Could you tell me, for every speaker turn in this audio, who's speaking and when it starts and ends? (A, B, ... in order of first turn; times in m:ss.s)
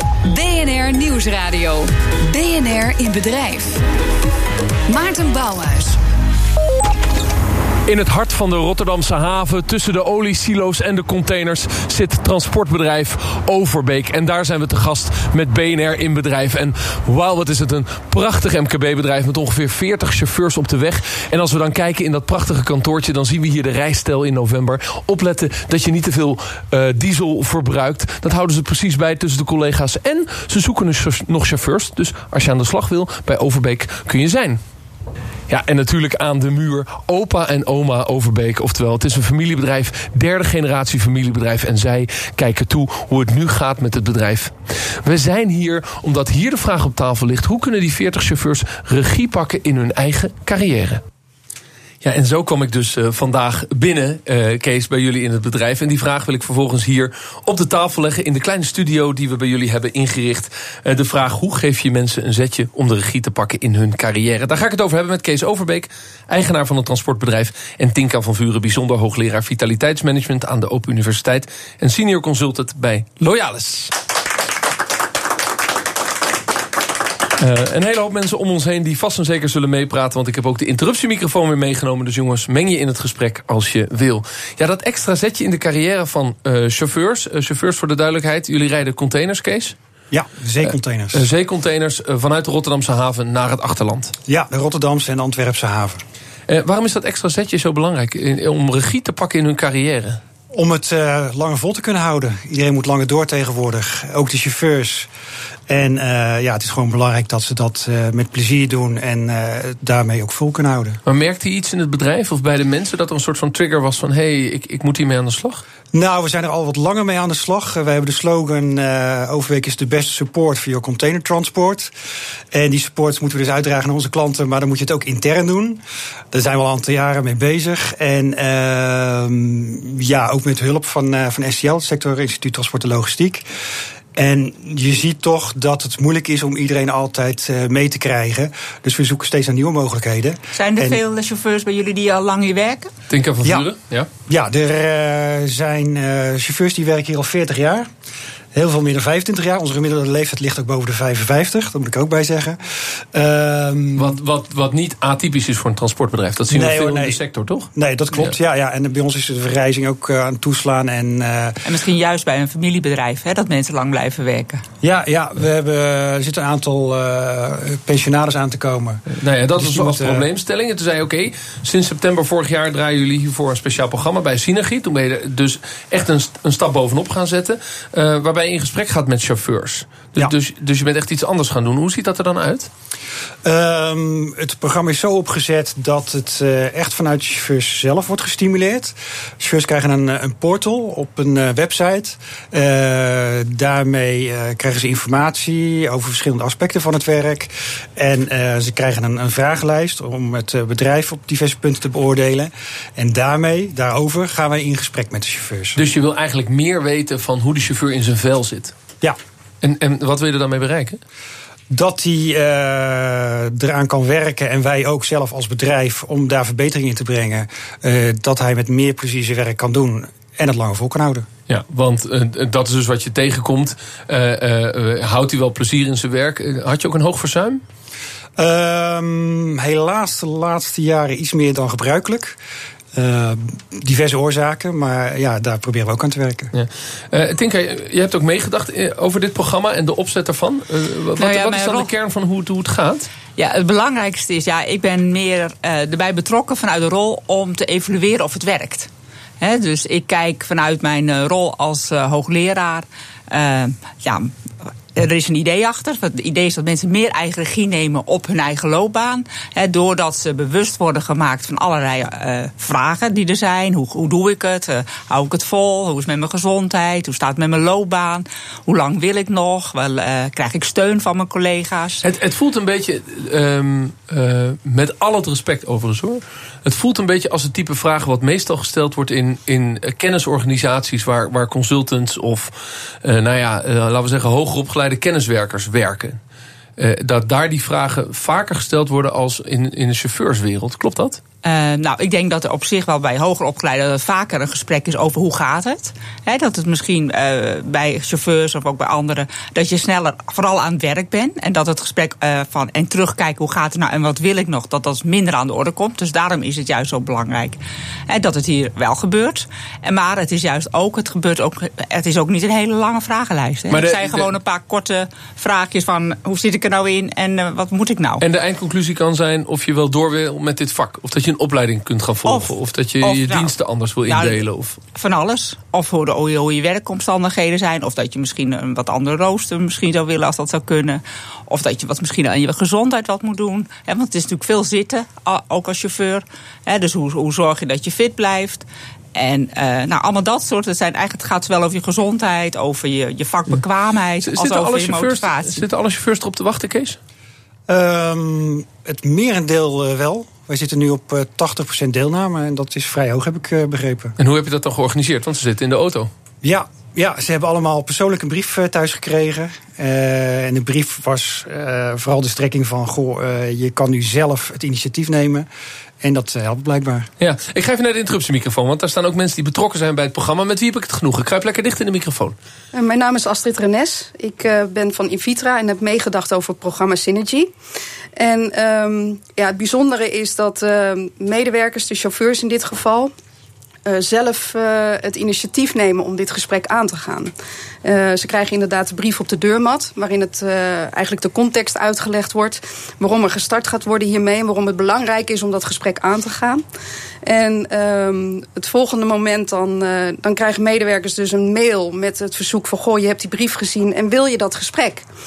0:00.2-0:03.8 A
0:04.9-0:06.0 A
0:07.8-0:34.6 B
0:35.5-0:51.0 B
0:52.0-1:13.9 B
1:17.4-1:29.8 B
1:30.1-1:31.3 C
1:30.6-1:34.1 B
1:34.3-1:36.0 C
1:36.5-1:40.2 B
1:40.5-1:45.1 C
1:45.7-1:51.0 C
1:51.0-1:55.6 B
1:55.9-2:01.9 C
2:02.5-2:13.4 C
2:14.1-2:21.0 C
2:20.6-2:22.9 D
2:23.1-2:24.1 B
2:23.4-2:23.7 C
2:24.3-2:27.9 C
2:28.5-2:32.6 C
2:33.1-2:34.2 C
2:34.0-2:38.4 B
2:36.5-2:37.2 C
2:37.7-2:41.6 C
2:41.6-2:44.6 D
2:44.8-2:49.0 C
2:49.1-3:02.7 B
2:49.5-2:50.3 C
3:03.4-3:25.8 C
3:25.8-3:28.8 B
3:29.6-3:31.0 B
3:31.7-3:41.3 C
3:41.5-3:47.6 B
3:48.4-3:52.4 C
3:52.9-3:56.5 C
3:56.5-4:03.1 B
4:01.2-4:01.9 D
4:03.4-4:08.9 D
4:09.4-4:14.4 D
4:14.9-4:32.0 D
4:32.0-4:46.2 B
4:46.8-4:51.2 B
4:51.4-5:18.2 D
5:13.7-5:14.3 B
5:18.2-5:24.8 B
5:22.2-5:23.5 D
5:24.1-5:45.6 D
5:44.2-5:47.0 B
5:47.7-5:54.1 C
5:54.2-5:56.1 B
5:56.4-6:05.5 C
6:06.0-6:07.1 C
6:07.2-6:12.4 B
6:12.7-6:17.5 E
6:18.2-6:23.1 E
6:23.8-6:27.3 E
6:27.8-6:36.6 E
6:37.2-6:45.0 E